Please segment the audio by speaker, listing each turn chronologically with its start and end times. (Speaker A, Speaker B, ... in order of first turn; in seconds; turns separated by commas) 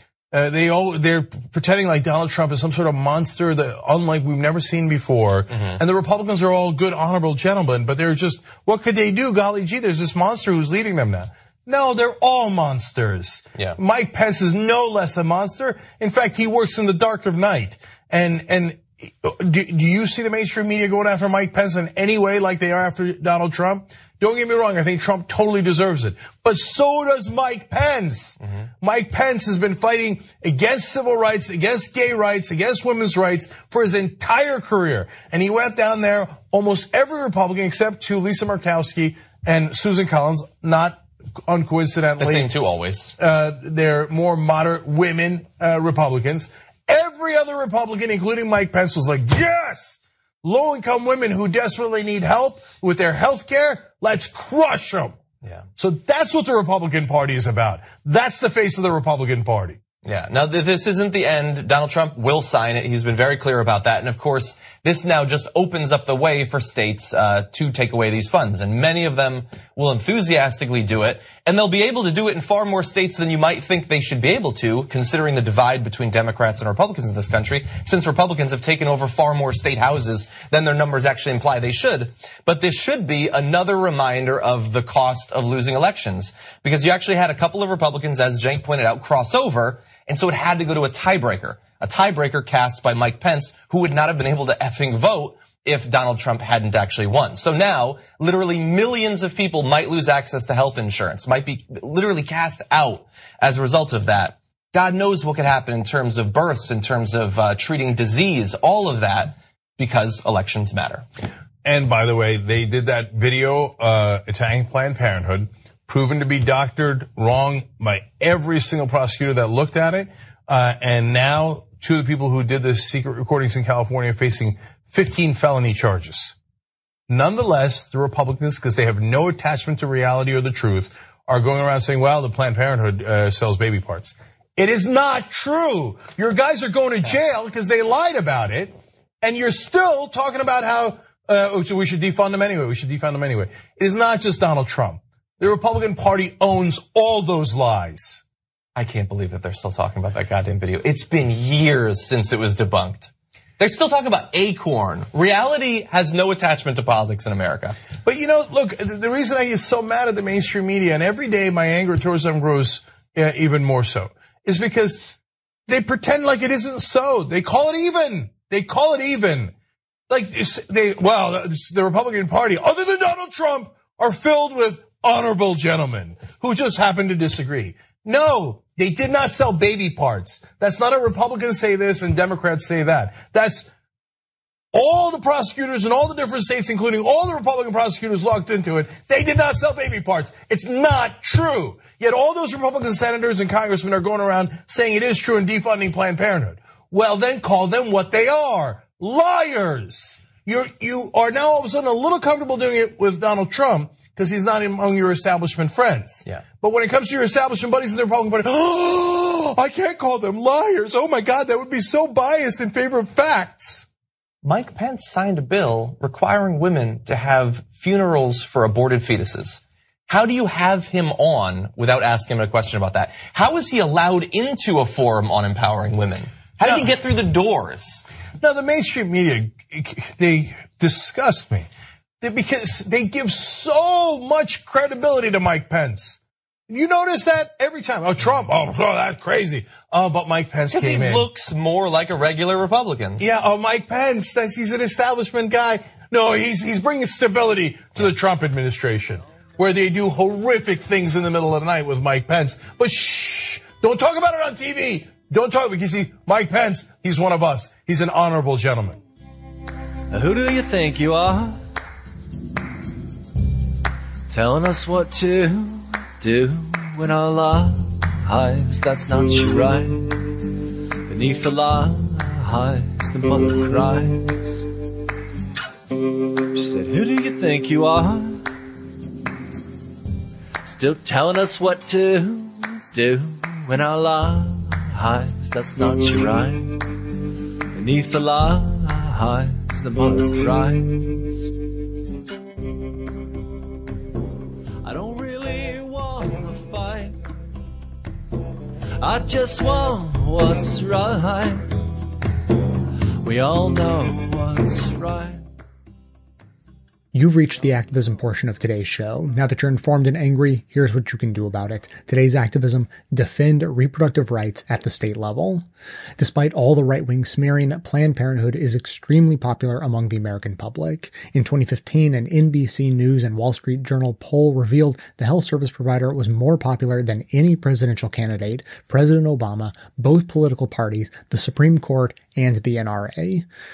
Speaker A: 0.3-42.5, Speaker B: 5.5-5.8, Speaker B: 28.4-28.6, Speaker B: 42.2-43.1, Speaker A: 43.2-55.1, Speaker A: 55.8-59.8, Speaker B: 60.0-111.0, Speaker A: 111.6-126.3, Speaker A: 127.1-148.2, Speaker B: 148.7-157.8, Speaker A: 158.0-165.0, Speaker A: 165.7-169.5, Speaker A: 170.1-183.7, Speaker A: 184.7-213.8, Speaker B: 214.4-228.0, Speaker A: 226.6-227.0, Speaker A: 228.4-231.7, Speaker A: 232.2-241.3, Speaker B: 240.7-243.2, Speaker A: 243.2-259.0, Speaker C: 260.1-261.6, Speaker C: 264.3-270.2, Speaker C: 271.1-274.6, Speaker C: 276.5-278.4, Speaker C: 280.7-286.8, Speaker C: 287.7-291.4, Speaker C: 294.8-297.2, Speaker C: 299.0-301.7, Speaker C: 303.2-305.4, Speaker D: 307.1-315.6, Speaker D: 316.2-333.4